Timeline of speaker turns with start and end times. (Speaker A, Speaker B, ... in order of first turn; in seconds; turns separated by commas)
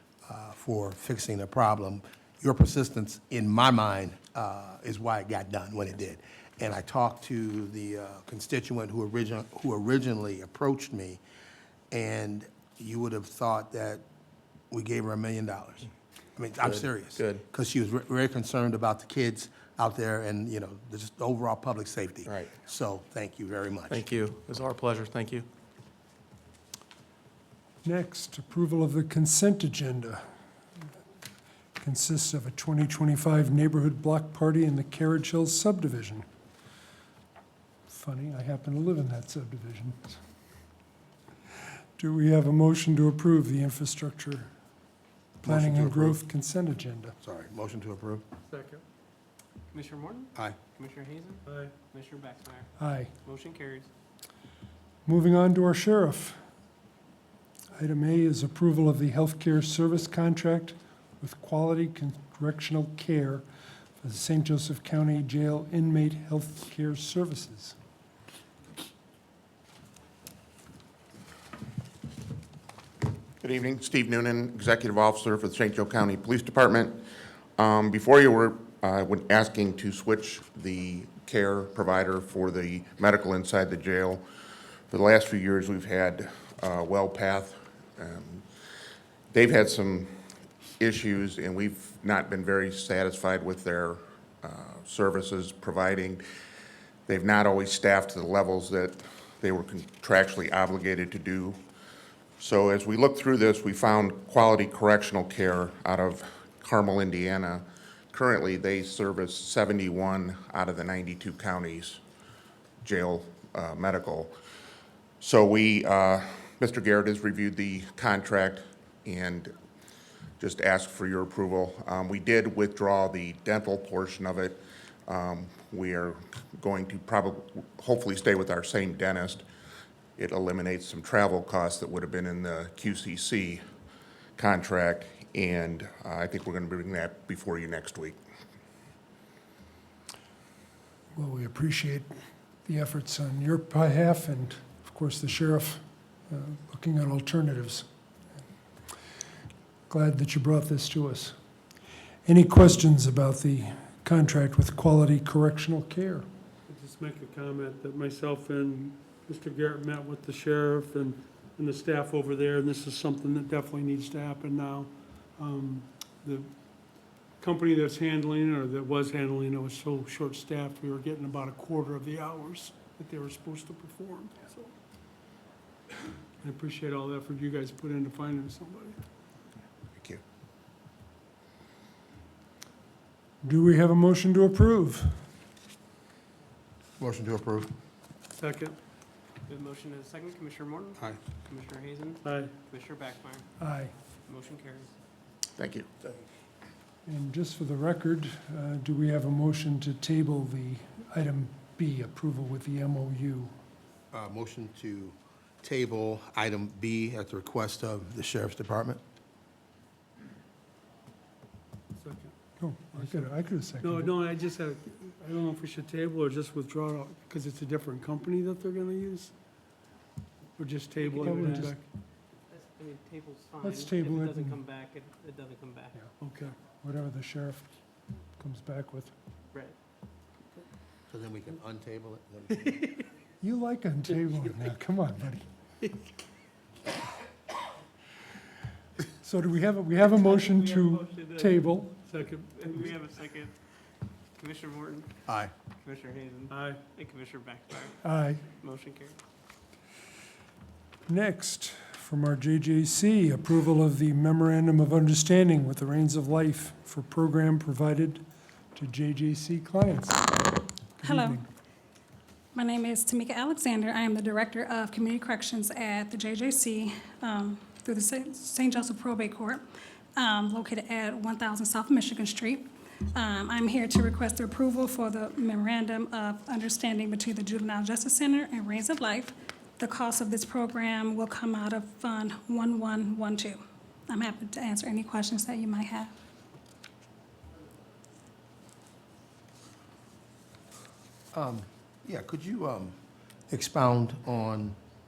Speaker A: 0.3-11.2, Speaker A: 11.9-14.0, Speaker A: 14.7-24.0, Speaker B: 16.6-17.4, Speaker B: 23.9-25.5, Speaker C: 27.8-30.2, Speaker C: 31.8-36.2, Speaker C: 37.9-40.2, Speaker C: 42.0-44.5, Speaker A: 45.4-46.2, Speaker C: 45.4-47.2, Speaker A: 47.2-48.2, Speaker D: 48.5-48.8, Speaker E: 49.7-52.7, Speaker D: 51.5-51.7, Speaker C: 52.8-53.1, Speaker E: 53.2-53.9, Speaker C: 55.1-56.4, Speaker C: 57.8-63.5, Speaker C: 64.0-67.8, Speaker F: 73.4-77.1, Speaker F: 77.6-84.2, Speaker F: 84.9-88.4, Speaker F: 89.3-90.1, Speaker F: 90.8-96.2, Speaker F: 97.1-101.6, Speaker F: 102.4-112.0, Speaker F: 112.8-114.3, Speaker F: 115.2-119.5, Speaker F: 120.4-129.4, Speaker F: 130.2-133.6, Speaker F: 134.4-138.2, Speaker C: 141.2-142.1, Speaker C: 142.7-147.9, Speaker C: 149.9-151.4, Speaker C: 152.3-156.3, Speaker D: 156.7-166.5, Speaker D: 167.4-174.7, Speaker D: 176.4-179.0, Speaker F: 179.9-180.2, Speaker C: 183.4-185.2, Speaker A: 187.0-187.7, Speaker D: 188.4-188.8, Speaker E: 189.5-193.5, Speaker D: 192.2-192.5, Speaker C: 193.6-193.9, Speaker E: 194.3-194.9, Speaker F: 195.6-195.9, Speaker C: 197.1-203.5, Speaker A: 204.1-209.0, Speaker D: 212.0-212.3, Speaker C: 212.6-214.1, Speaker D: 212.9-213.3, Speaker D: 213.8-219.3, Speaker D: 220.6-221.8, Speaker E: 221.0-221.6, Speaker C: 221.2-221.8, Speaker E: 222.5-226.0, Speaker C: 223.6-224.6, Speaker D: 226.2-226.6, Speaker C: 226.7-227.7, Speaker C: 228.4-229.1, Speaker A: 231.1-232.8, Speaker E: 232.5-233.0, Speaker C: 233.4-235.5, Speaker C: 239.2-242.0, Speaker E: 240.0-241.6, Speaker D: 242.1-242.8, Speaker E: 242.5-243.6, Speaker E: 244.4-245.1, Speaker A: 245.3-245.5, Speaker E: 245.8-248.0, Speaker D: 246.5-246.8, Speaker C: 248.0-248.4, Speaker E: 248.6-249.2, Speaker C: 251.1-258.2, Speaker C: 258.8-260.3, Speaker C: 261.0-261.5, Speaker G: 261.0-261.4, Speaker G: 262.5-269.6, Speaker G: 270.2-286.1, Speaker A: 291.3-293.0, Speaker A: 293.5-294.8